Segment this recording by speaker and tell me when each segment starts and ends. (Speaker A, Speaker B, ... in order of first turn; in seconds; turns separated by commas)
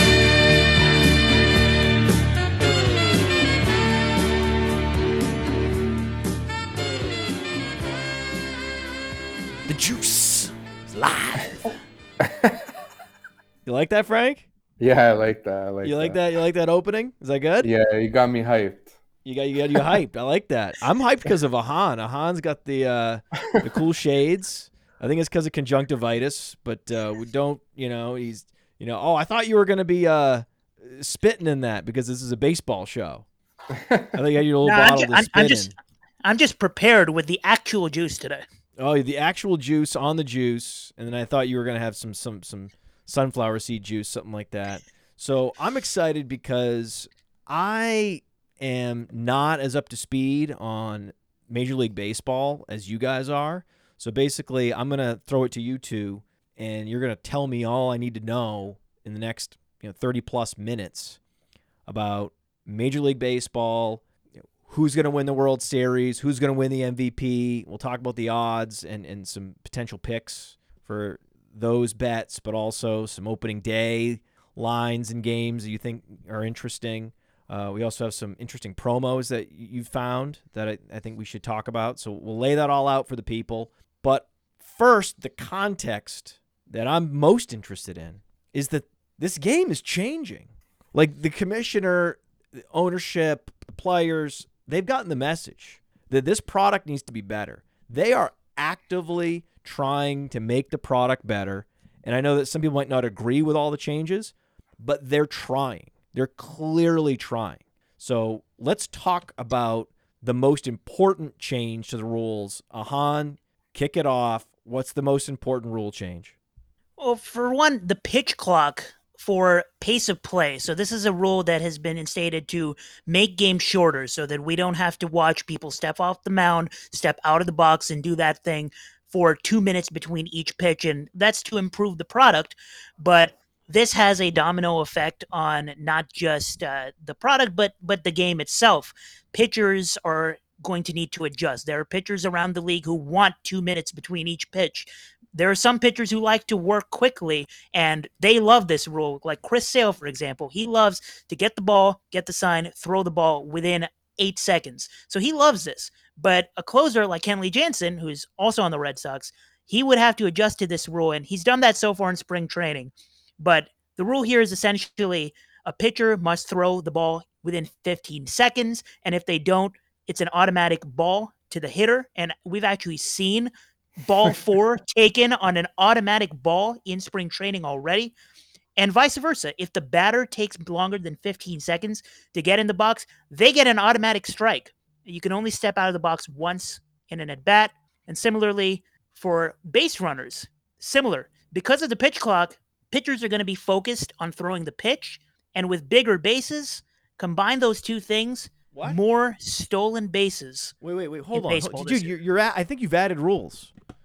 Speaker A: 9.7-11.7, Speaker B: 12.2-12.7, Speaker A: 13.7-14.4, Speaker B: 14.8-16.2, Speaker A: 15.8-17.7, Speaker B: 17.6-19.0, Speaker A: 19.2-33.2, Speaker B: 33.7-34.1, Speaker A: 34.1-35.7, Speaker C: 34.6-35.7, Speaker C: 36.2-38.4, Speaker A: 38.8-61.2, Speaker A: 61.9-64.0, Speaker A: 64.6-116.3, Speaker C: 117.0-173.5, Speaker C: 174.0-178.1, Speaker C: 178.8-200.8, Speaker A: 198.7-199.0, Speaker A: 200.8-203.7, Speaker C: 201.3-202.1